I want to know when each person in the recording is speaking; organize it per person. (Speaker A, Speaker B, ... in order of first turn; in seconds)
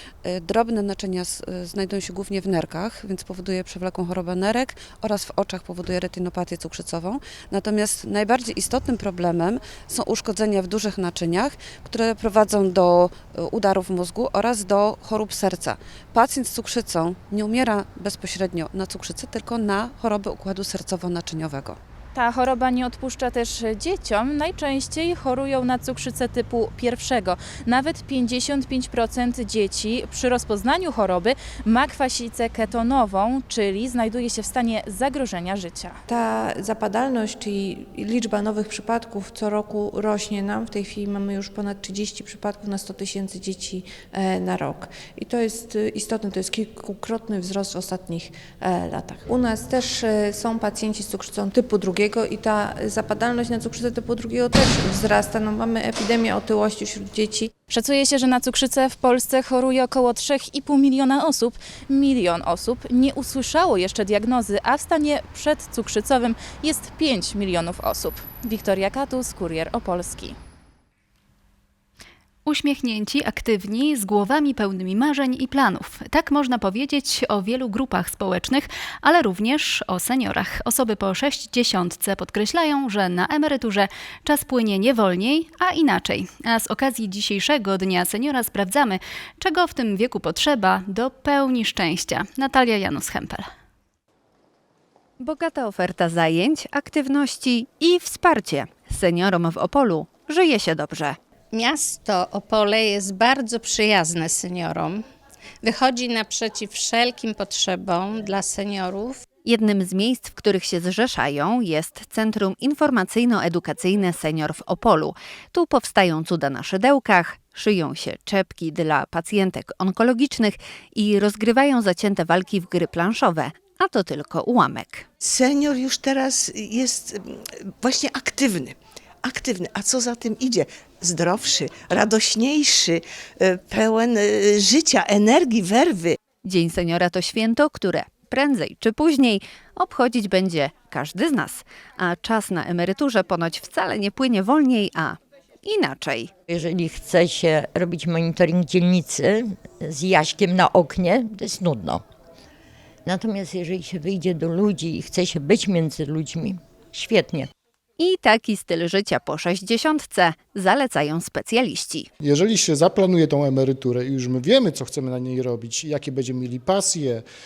Speaker A: 0.2-21.8
Speaker B: 22.2-36.0, 57.7-70.3
Speaker C: 36.1-57.5
Speaker D: 72.5-93.5
Speaker E: 95.2-101.2, 109.4-125.1, 136.4-146.3, 158.0-162.1
Speaker F: 101.5-105.0, 105.6-109.2
Speaker G: 125.2-127.3, 127.8-136.2
Speaker H: 146.5-152.0, 153.1-157.5
Speaker I: 162.2-167.2